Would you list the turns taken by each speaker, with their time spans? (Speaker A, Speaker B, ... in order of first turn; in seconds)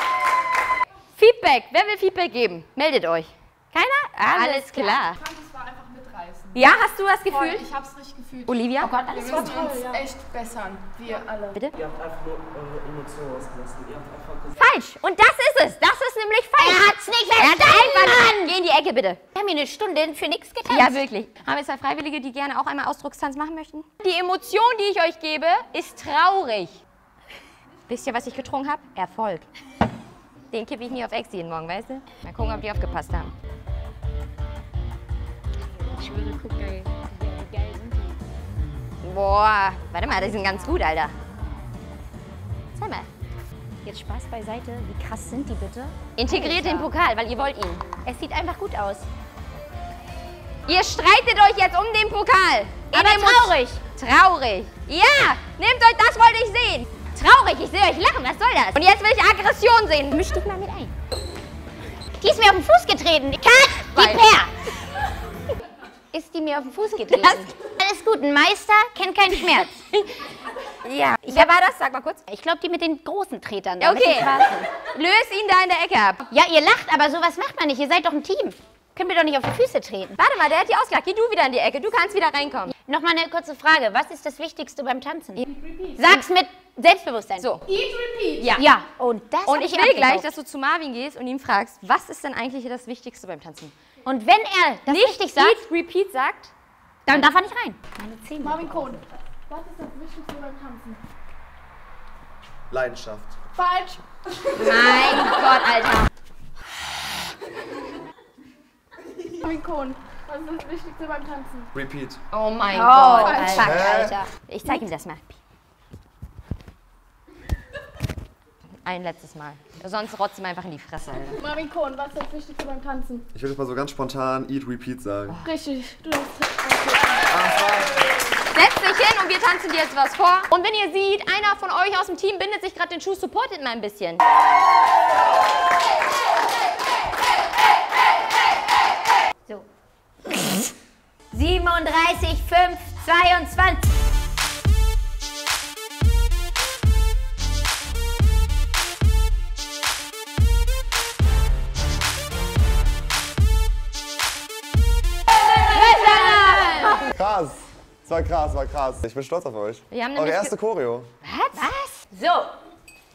Speaker A: 1.1-3.3, 4.1-5.2, 6.5-7.7, 8.5-8.9, 11.5-11.8, 14.6-19.2, 20.7-26.8, 27.9-29.5, 30.5-33.3, 39.0-41.1, 42.8-43.1, 46.2-47.9, 50.7-60.9, 63.9-64.2, 67.1-67.5, 69.5-70.0, 70.8-72.2, 73.8-76.2, 80.2-82.7, 87.4-87.7, 88.4-88.7, 89.5-93.7, 94.9-96.5, 104.5-106.1, 112.3-113.8, 114.5-115.4, 118.8-121.4, 128.5-134.2, 155.7-157.1, 159.9-160.5, 161.2-162.1
Speaker B: 3.7-5.1, 8.8-10.1, 16.6-18.5, 19.3-21.1, 35.8-38.2, 43.8-46.9, 48.0-49.1, 52.9-53.8, 62.2-64.5, 66.1-69.8, 71.2-71.5, 72.3-74.7, 76.3-80.2, 82.9-87.8, 88.5-90.3, 94.1-95.7, 97.1-99.0, 112.7-114.3, 140.3-140.7, 141.3-143.9, 155.8-157.1, 161.5-162.5
Speaker C: 5.2-6.5, 7.3-8.5, 9.1-11.5, 87.9-88.4, 98.4-101.0, 103.6-104.0, 109.2-111.7, 121.4-123.2, 125.5-127.2
Speaker D: 11.8-14.5
Speaker E: 102.7-103.3, 111.7-112.2, 113.5-114.2, 123.3-125.4, 127.3-128.0, 157.1-161.1